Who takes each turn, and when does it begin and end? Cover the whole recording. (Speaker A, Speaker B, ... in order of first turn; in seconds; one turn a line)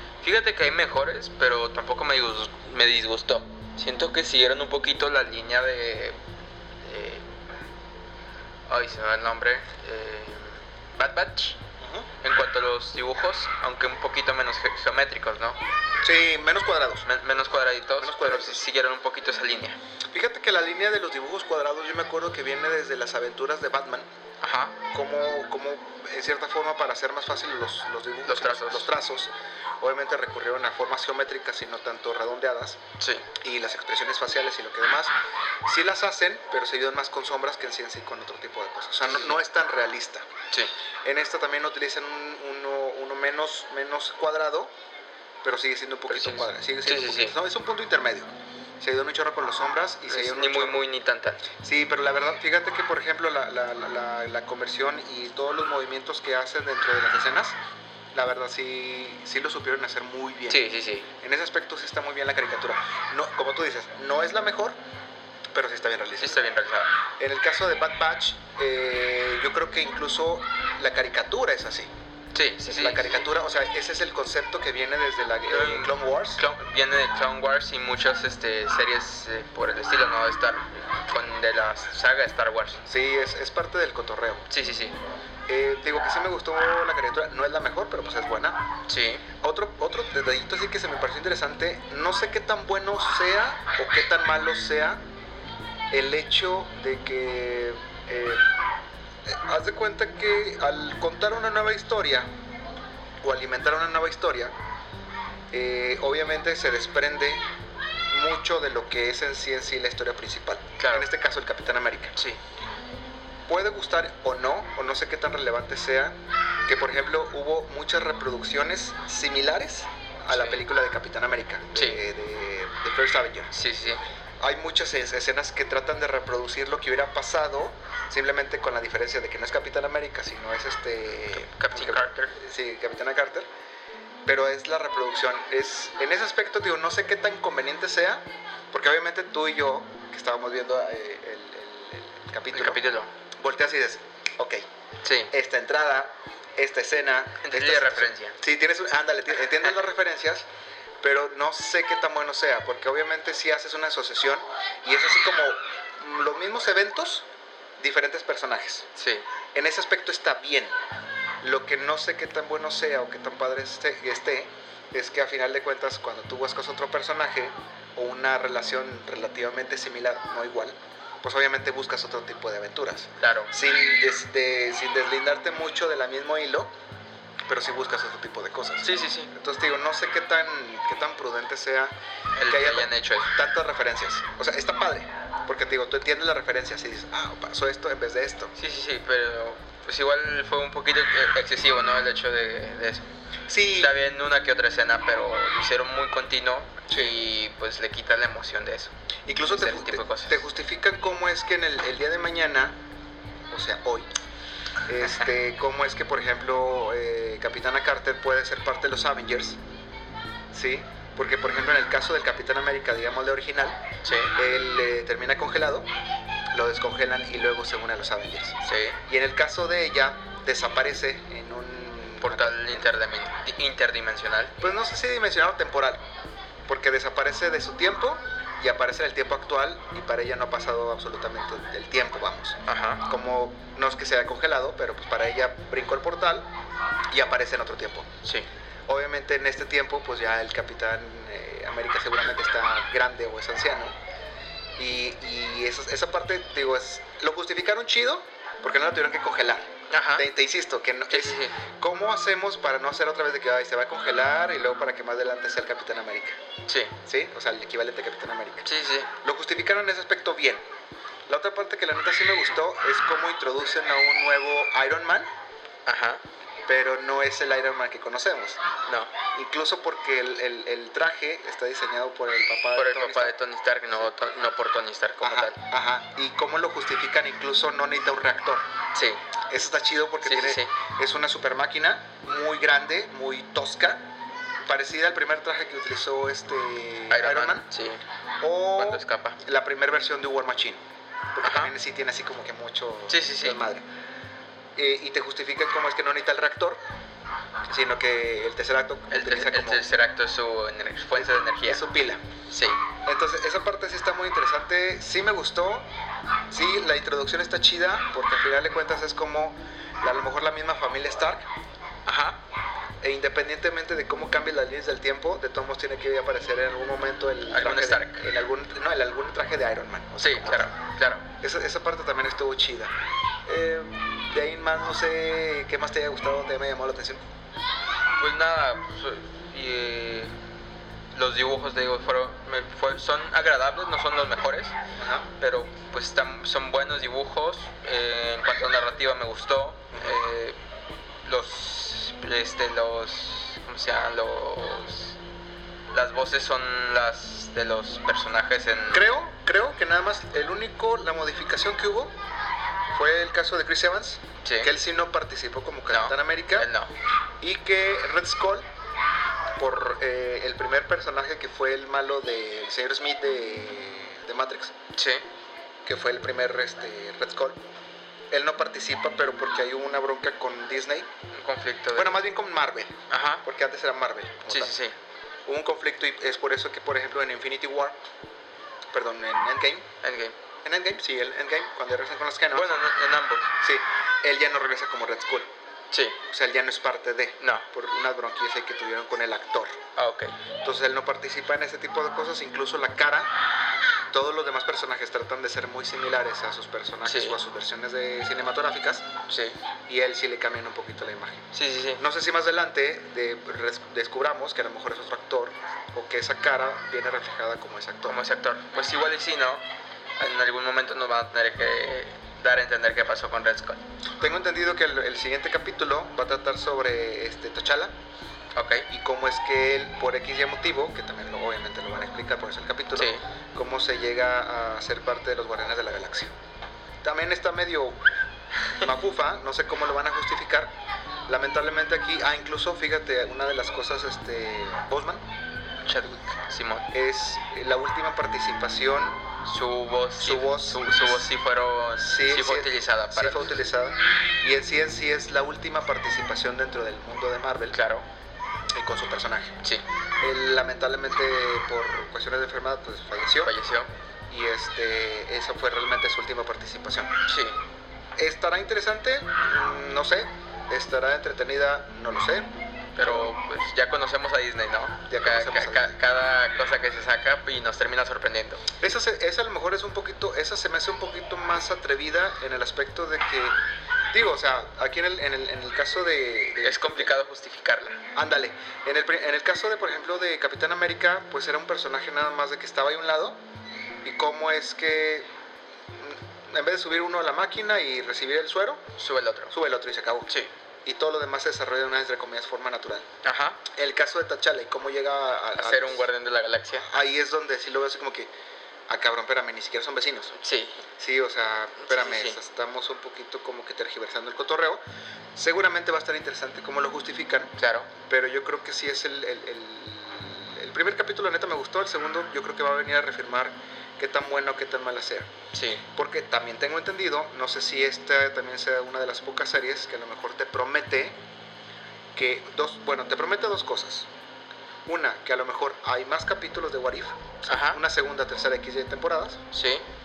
Speaker A: 0.2-6.2
Speaker A: 6.8-7.2
Speaker A: 8.7-11.6
Speaker B: 11.8-12.1
Speaker A: 12.2-15.6
Speaker B: 16.0-17.1
Speaker A: 17.1-19.8
Speaker B: 18.0-18.6
Speaker B: 20.1-24.1
Speaker A: 24.4-24.8
Speaker B: 24.9-29.3
Speaker A: 28.3-28.9
Speaker B: 29.8-32.8
Speaker A: 33.0-33.3
Speaker B: 33.4-35.1
Speaker B: 35.7-40.2
Speaker A: 39.0-39.4
Speaker B: 41.0-44.7
Speaker B: 45.4-48.3
Speaker A: 46.1-47.4
Speaker B: 48.8-50.8
Speaker A: 50.1-51.4
Speaker B: 51.6-57.6
Speaker B: 58.1-60.6
Speaker A: 60.5-61.1
Speaker B: 61.2-64.8
Speaker B: 65.5-66.4
Speaker A: 66.2-66.9
Speaker B: 67.2-71.9
Speaker A: 72.3-73.3
Speaker B: 72.8-76.4
Speaker A: 75.5-82.8
Speaker B: 82.9-84.5
Speaker A: 84.5-85.0
Speaker B: 85.5-88.6
Speaker A: 88.9-89.2
Speaker B: 89.4-95.0
Speaker B: 95.9-98.4
Speaker B: 99.3-102.3
Speaker B: 103.2-104.5
Speaker B: 105.5-107.4
Speaker B: 108.1-112.2
Speaker A: 110.8-111.1
Speaker B: 113.5-116.2
Speaker B: 116.7-123.5
Speaker A: 120.3-120.7
Speaker A: 121.8-122.0
Speaker A: 123.5-124.0
Speaker B: 124.4-133.5
Speaker A: 131.3-132.3
Speaker B: 134.3-142.8
Speaker A: 142.5-143.1
Speaker B: 143.4-144.6
Speaker A: 145.0-145.3
Speaker B: 145.3-150.5
Speaker A: 147.4-148.4
Speaker B: 151.0-157.3
Speaker B: 157.8-158.9
Speaker A: 159.0-159.2
Speaker B: 159.6-160.7
Speaker B: 161.4-176.7
Speaker A: 173.2-173.5
Speaker B: 177.5-181.9
Speaker A: 178.8-179.3
Speaker A: 182.4-183.3
Speaker B: 182.4-188.5
Speaker A: 188.6-193.1
Speaker B: 193.5-193.9
Speaker A: 193.7-198.9
Speaker B: 196.9-197.2
Speaker B: 199.3-202.8
Speaker A: 199.5-200.4
Speaker B: 203.5-204.1
Speaker B: 204.8-209.6
Speaker B: 210.5-213.8
Speaker A: 214.0-214.3
Speaker B: 214.3-215.9
Speaker B: 216.5-222.9
Speaker A: 218.6-219.0
Speaker A: 222.2-224.6
Speaker B: 224.6-226.0
Speaker B: 226.7-236.5
Speaker A: 232.7-233.0
Speaker B: 237.1-238.1
Speaker B: 238.9-243.9
Speaker B: 244.8-256.4
Speaker A: 249.9-250.3
Speaker A: 251.1-251.6
Speaker A: 256.7-257.0
Speaker B: 257.0-258.7
Speaker A: 258.6-259.1
Speaker B: 259.2-260.6
Speaker B: 261.3-265.3
Speaker A: 265.9-266.2
Speaker B: 266.7-268.6
Speaker A: 268.9-269.1
Speaker B: 269.4-273.4
Speaker A: 272.8-275.6
Speaker B: 275.2-278.6
Speaker A: 278.9-279.2
Speaker B: 279.5-284.1
Speaker A: 280.2-280.7
Speaker B: 284.7-287.7
Speaker A: 287.1-288.0
Speaker B: 288.4-290.8
Speaker A: 288.8-289.4
Speaker B: 291.4-293.8
Speaker A: 291.4-291.7
Speaker A: 293.1-293.6
Speaker B: 294.8-296.8
Speaker B: 297.7-299.9
Speaker A: 299.1-301.8
Speaker B: 301.2-302.2
Speaker A: 302.5-302.8
Speaker B: 303.0-305.9
Speaker B: 306.5-311.5
Speaker A: 312.1-312.4
Speaker B: 313.0-320.8
Speaker A: 317.5-318.2
Speaker A: 320.2-321.2
Speaker B: 321.4-322.9
Speaker B: 323.5-327.2
Speaker A: 328.2-330.3
Speaker A: 331.1-334.7
Speaker B: 335.0-335.3
Speaker A: 335.4-340.6
Speaker A: 341.2-345.2
Speaker A: 345.9-349.1
Speaker B: 348.9-352.1
Speaker B: 352.9-356.7
Speaker A: 354.4-354.7
Speaker A: 355.9-356.9
Speaker B: 357.4-358.6
Speaker B: 359.6-364.7
Speaker A: 364.9-365.2
Speaker B: 365.9-367.6
Speaker B: 368.3-371.1
Speaker A: 371.3-372.1
Speaker B: 371.9-374.8
Speaker A: 373.1-373.4
Speaker A: 374.5-374.9
Speaker B: 375.5-378.0
Speaker B: 378.9-379.9
Speaker A: 380.0-380.4
Speaker B: 380.6-382.8
Speaker A: 382.5-383.5
Speaker B: 383.6-385.5
Speaker A: 385.9-386.2
Speaker B: 386.3-389.8
Speaker A: 387.4-387.7
Speaker A: 390.0-390.4
Speaker B: 390.6-393.3
Speaker B: 394.1-399.1
Speaker A: 397.1-397.4
Speaker A: 399.3-399.6
Speaker B: 399.9-408.2
Speaker A: 401.5-402.0
Speaker A: 408.1-409.6
Speaker A: 410.2-413.8
Speaker B: 414.2-417.9
Speaker A: 418.6-418.9
Speaker B: 418.9-426.3
Speaker A: 422.9-423.2
Speaker B: 427.0-428.0
Speaker B: 428.8-430.7
Speaker B: 431.3-435.2
Speaker A: 435.8-436.9
Speaker B: 436.9-439.2
Speaker A: 439.4-443.6
Speaker B: 440.2-440.9
Speaker B: 442.0-447.8
Speaker A: 447.7-448.1
Speaker B: 448.8-449.6
Speaker B: 450.2-453.5
Speaker A: 453.4-453.9
Speaker B: 454.3-457.1
Speaker A: 457.3-457.6
Speaker B: 458.2-462.5
Speaker A: 463.0-468.6
Speaker B: 463.0-463.3
Speaker B: 465.1-466.0
Speaker B: 468.8-473.6
Speaker B: 474.1-477.2
Speaker A: 476.6-478.0
Speaker B: 478.1-483.4
Speaker B: 484.0-485.3
Speaker B: 486.0-488.8
Speaker A: 489.0-489.5
Speaker B: 489.5-490.3
Speaker B: 490.9-493.1
Speaker A: 493.2-493.6
Speaker B: 493.7-496.1
Speaker A: 495.6-496.9
Speaker B: 496.8-498.3
Speaker B: 498.9-500.4
Speaker A: 500.4-500.8
Speaker B: 501.0-504.8
Speaker A: 501.8-502.4
Speaker B: 505.4-515.3
Speaker A: 507.6-507.9
Speaker A: 515.5-515.8
Speaker B: 515.9-521.2
Speaker B: 522.1-524.1
Speaker B: 524.9-529.5
Speaker A: 527.5-527.8
Speaker A: 529.5-529.8